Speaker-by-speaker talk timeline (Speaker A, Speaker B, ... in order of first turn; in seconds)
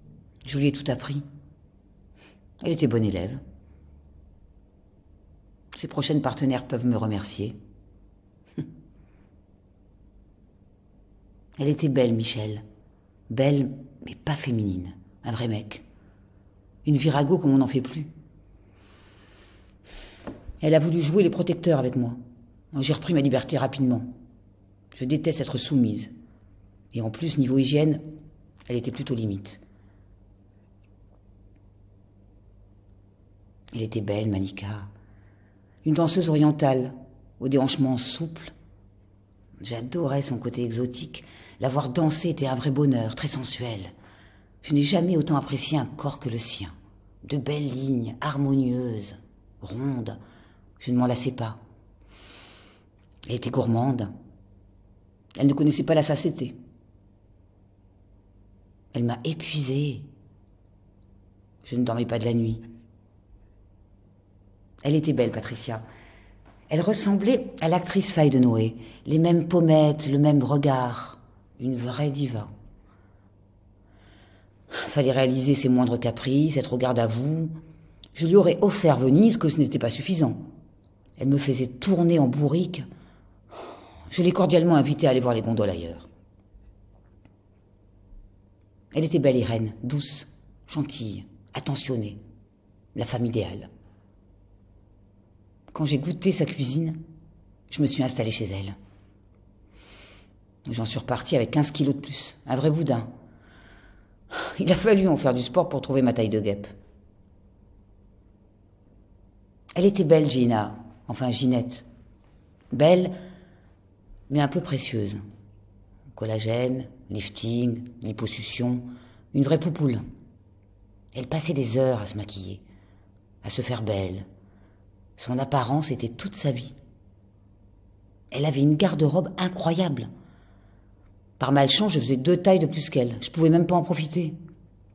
Speaker A: 0.4-1.2, 2.6-3.4, 5.7-7.5, 11.6-12.6, 13.3-15.8, 16.8-18.1, 20.6-22.2, 22.7-24.1, 24.9-26.1, 26.9-28.0, 28.7-29.6, 33.7-34.9, 35.8-38.5, 39.6-43.9, 44.6-46.7, 47.2-50.2, 50.8-51.6, 53.3-54.1, 55.4-56.5, 58.9-60.0, 61.6-62.6, 64.8-65.8, 66.7-72.5, 74.8-77.5, 78.1-80.4, 81.2-82.8, 84.1-86.1, 88.9-92.2, 92.9-93.7, 95.7-97.0, 97.7-98.7, 100.7-103.1, 104.3-106.7, 109.8-111.8, 112.7-113.1, 114.3-115.2, 116.1-120.0, 121.1-122.6, 123.4-124.2, 125.2-126.7, 128.3-130.1, 131.4-134.3